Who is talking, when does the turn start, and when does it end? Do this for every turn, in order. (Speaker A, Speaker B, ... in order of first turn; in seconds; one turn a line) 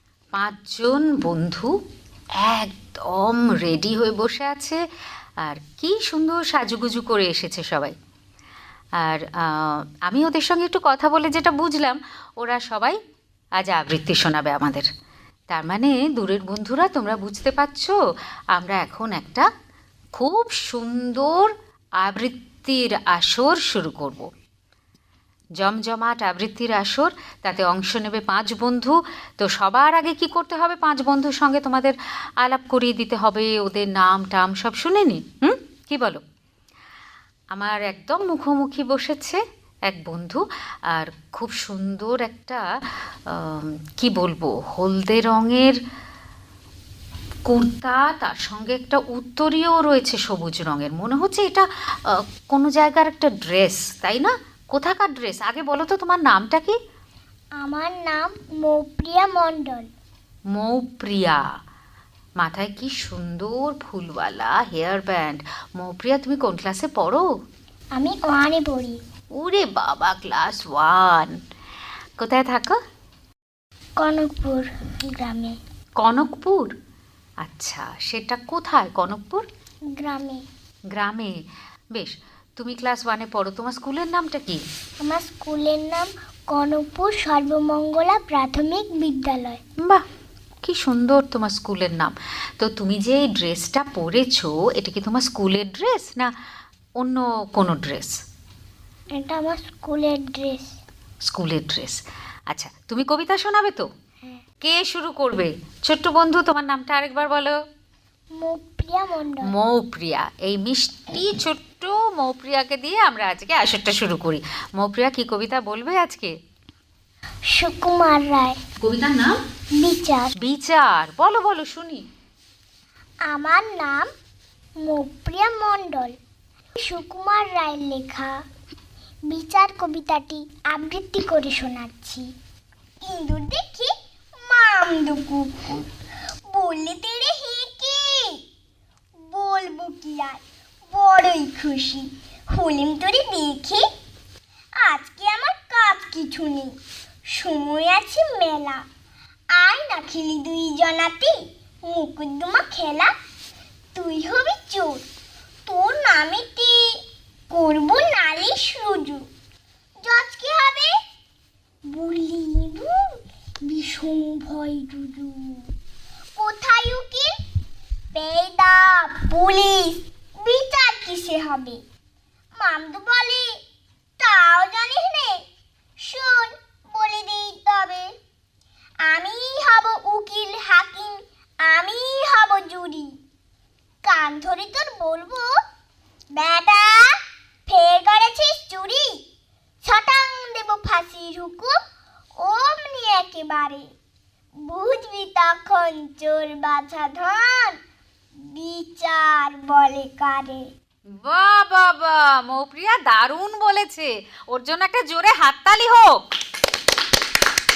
Speaker A: 0.3-1.7
Speaker A: 2.4-4.8
Speaker A: 5.4-7.9
Speaker A: 9.0-13.0
Speaker A: 13.6-14.9
Speaker A: 15.5-17.9
Speaker A: 18.5-19.5
Speaker A: 20.1-24.3
Speaker A: 25.6-36.2
Speaker A: 37.5-42.6
Speaker A: 43.3-45.8
Speaker A: 47.5-56.8
Speaker B: 57.6-59.9
Speaker A: 60.5-61.4
Speaker A: 62.4-67.3
Speaker B: 68.0-69.0
Speaker A: 69.4-71.4
Speaker A: 72.2-72.8
Speaker B: 74.0-75.6
Speaker A: 76.0-76.7
Speaker A: 77.4-79.5
Speaker B: 79.9-80.5
Speaker A: 81.0-81.4
Speaker A: 81.9-84.6
Speaker B: 85.0-89.6
Speaker A: 90.6-96.3
Speaker A: 97.0-98.2
Speaker B: 99.1-100.8
Speaker A: 101.3-103.9
Speaker A: 104.6-107.6
Speaker B: 108.4-109.5
Speaker A: 109.4-116.3
Speaker B: 117.5-118.6
Speaker A: 118.8-119.3
Speaker B: 119.8-120.3
Speaker A: 120.4-122.0
Speaker B: 123.3-124.1
Speaker B: 124.8-126.2
Speaker B: 126.8-128.4
Speaker B: 129.3-132.3
Speaker B: 133.0-135.8
Speaker B: 136.5-138.4
Speaker B: 139.2-143.8
Speaker B: 144.8-148.9
Speaker B: 149.5-153.1
Speaker B: 153.9-155.1
Speaker B: 155.7-159.3
Speaker B: 160.0-160.9
Speaker B: 161.9-162.9
Speaker B: 163.7-165.7
Speaker B: 166.4-167.3
Speaker B: 168.1-171.8
Speaker B: 172.6-173.5
Speaker B: 174.2-175.4
Speaker B: 176.0-178.1
Speaker B: 179.0-183.1
Speaker B: 184.0-185.5
Speaker B: 186.4-189.2
Speaker B: 189.8-191.8
Speaker B: 192.4-193.9
Speaker B: 194.7-197.8
Speaker B: 198.4-200.7
Speaker A: 201.2-206.2